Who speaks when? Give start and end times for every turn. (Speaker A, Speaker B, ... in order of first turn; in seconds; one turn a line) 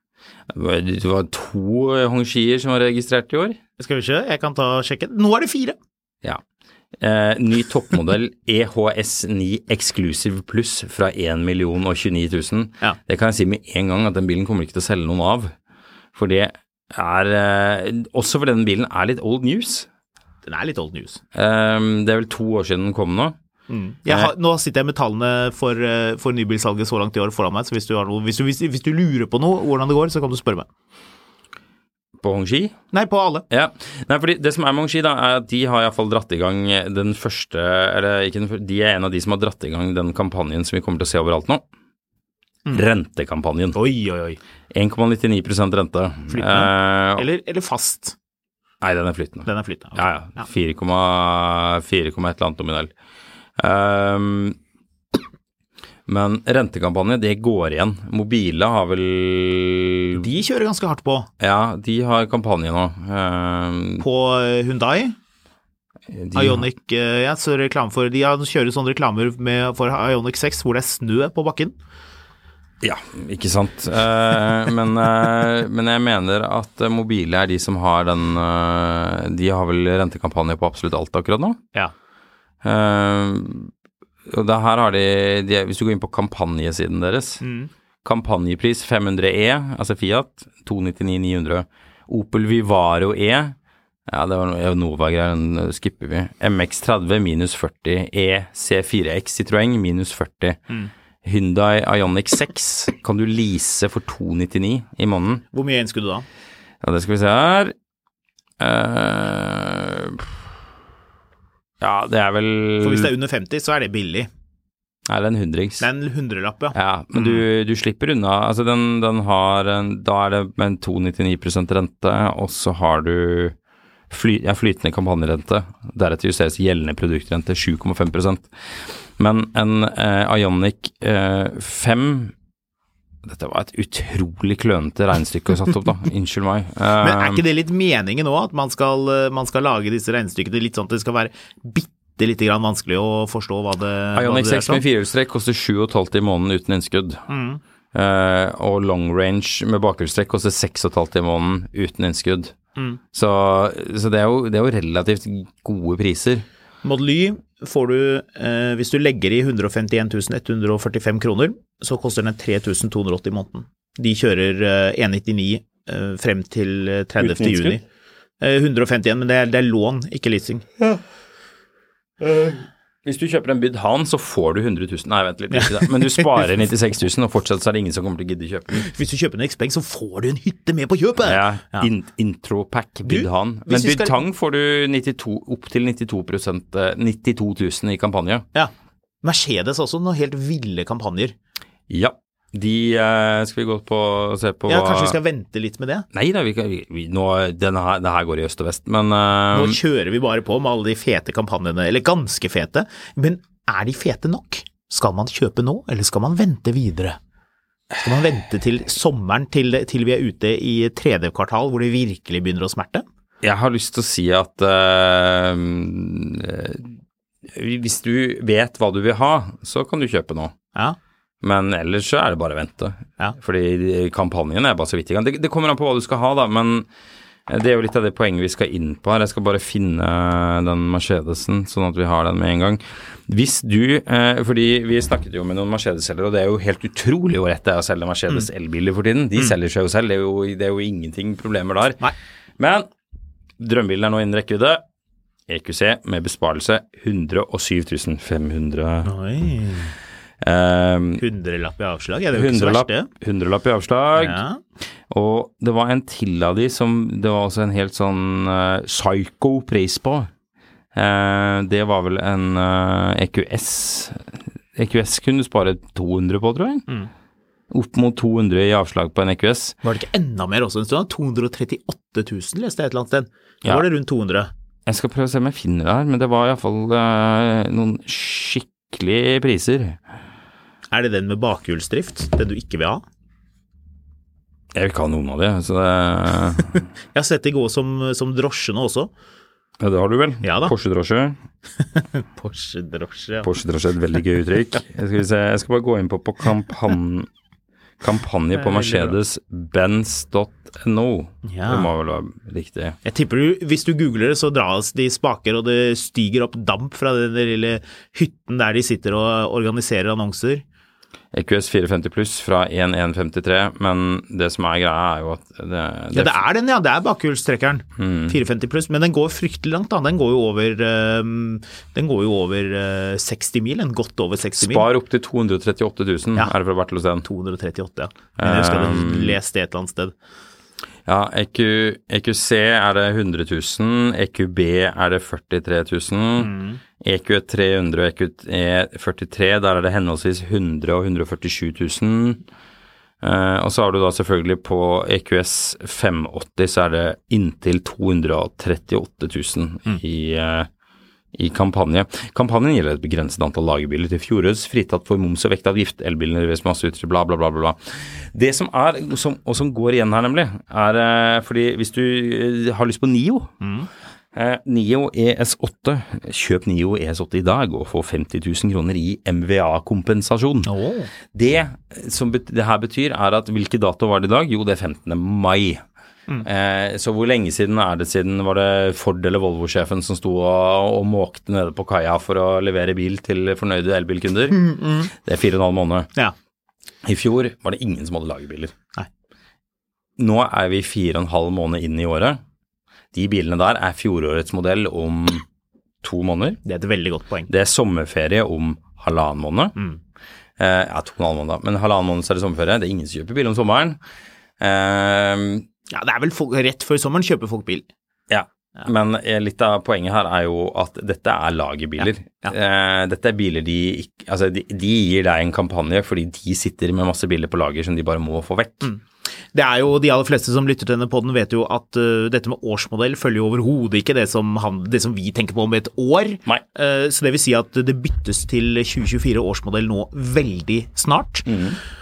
Speaker A: 0.5-3.6
Speaker B: 3.8-5.8
Speaker A: 7.0-15.5
Speaker A: 16.1-19.9
Speaker B: 20.4-21.2
Speaker A: 21.3-23.4
Speaker B: 23.7-30.7
Speaker A: 24.1-24.3
Speaker A: 32.2-32.8
Speaker B: 32.9-33.4
Speaker A: 33.5-41.6
Speaker A: 42.7-43.8
Speaker B: 43.7-44.4
Speaker A: 44.7-47.3
Speaker B: 46.3-48.1
Speaker A: 48.8-52.9
Speaker B: 49.5-50.5
Speaker A: 53.6-54.6
Speaker A: 56.1-60.3
Speaker B: 60.1-61.3
Speaker A: 61.4-64.0
Speaker B: 64.0-65.1
Speaker A: 66.1-66.7
Speaker B: 66.3-71.7
Speaker A: 72.8-81.6
Speaker A: 82.6-83.7
Speaker A: 84.3-87.4
Speaker B: 87.4-87.7
Speaker A: 88.0-93.5
Speaker A: 94.1-100.6
Speaker A: 101.2-105.4
Speaker B: 105.5-106.2
Speaker A: 106.8-107.7
Speaker A: 108.6-110.3
Speaker A: 111.8-113.1
Speaker B: 112.8-114.3
Speaker A: 115.1-115.8
Speaker B: 115.8-117.4
Speaker A: 116.7-123.5
Speaker A: 124.1-132.3
Speaker A: 133.2-137.4
Speaker B: 137.0-144.8
Speaker A: 144.1-147.2
Speaker B: 147.3-147.6
Speaker A: 147.9-152.5
Speaker A: 153.1-156.4
Speaker B: 156.8-167.8
Speaker A: 167.2-167.8
Speaker B: 168.4-170.6
Speaker A: 172.2-178.8
Speaker B: 175.5-176.3
Speaker B: 178.7-181.9
Speaker A: 181.2-188.4
Speaker B: 183.0-184.2
Speaker B: 189.2-191.3
Speaker A: 191.9-195.2
Speaker B: 194.7-196.1
Speaker A: 196.1-199.8
Speaker B: 199.5-207.2
Speaker B: 208.0-213.1
Speaker A: 213.4-216.9
Speaker A: 217.4-220.5
Speaker A: 221.4-226.9
Speaker A: 227.5-242.0
Speaker A: 242.6-242.9
Speaker A: 243.6-244.8
Speaker A: 245.5-249.1
Speaker B: 249.0-249.9
Speaker A: 250.4-251.2
Speaker B: 251.2-253.1
Speaker A: 252.3-254.4
Speaker B: 254.2-254.6
Speaker A: 255.1-260.3
Speaker A: 260.9-266.8
Speaker A: 267.7-269.8
Speaker B: 269.8-274.5
Speaker A: 274.9-280.0
Speaker B: 280.9-283.0
Speaker A: 284.7-286.8
Speaker B: 287.1-289.1
Speaker A: 289.8-291.4
Speaker B: 290.4-290.7
Speaker B: 291.9-293.5
Speaker A: 293.4-297.3
Speaker A: 298.0-303.0
Speaker B: 298.5-299.1
Speaker B: 301.4-301.9
Speaker B: 303.0-310.6
Speaker A: 311.3-316.4
Speaker B: 316.1-324.9
Speaker A: 318.0-318.4
Speaker A: 324.6-327.2
Speaker B: 327.2-330.1
Speaker A: 328.4-329.4
Speaker A: 331.1-342.4
Speaker B: 336.4-336.8
Speaker A: 343.2-350.7
Speaker A: 351.3-363.5
Speaker B: 363.6-363.9
Speaker A: 364.3-370.7
Speaker B: 370.6-371.1
Speaker A: 371.3-375.8
Speaker A: 376.4-386.1
Speaker B: 384.5-385.1
Speaker A: 387.0-388.7
Speaker A: 390.2-392.4
Speaker A: 393.1-395.4
Speaker A: 396.0-396.6
Speaker B: 396.6-397.5
Speaker A: 397.5-399.7
Speaker A: 400.6-404.0
Speaker A: 404.6-405.6
Speaker B: 405.9-407.9
Speaker A: 408.3-418.9
Speaker B: 412.0-412.5
Speaker B: 419.5-431.5
Speaker A: 431.4-431.8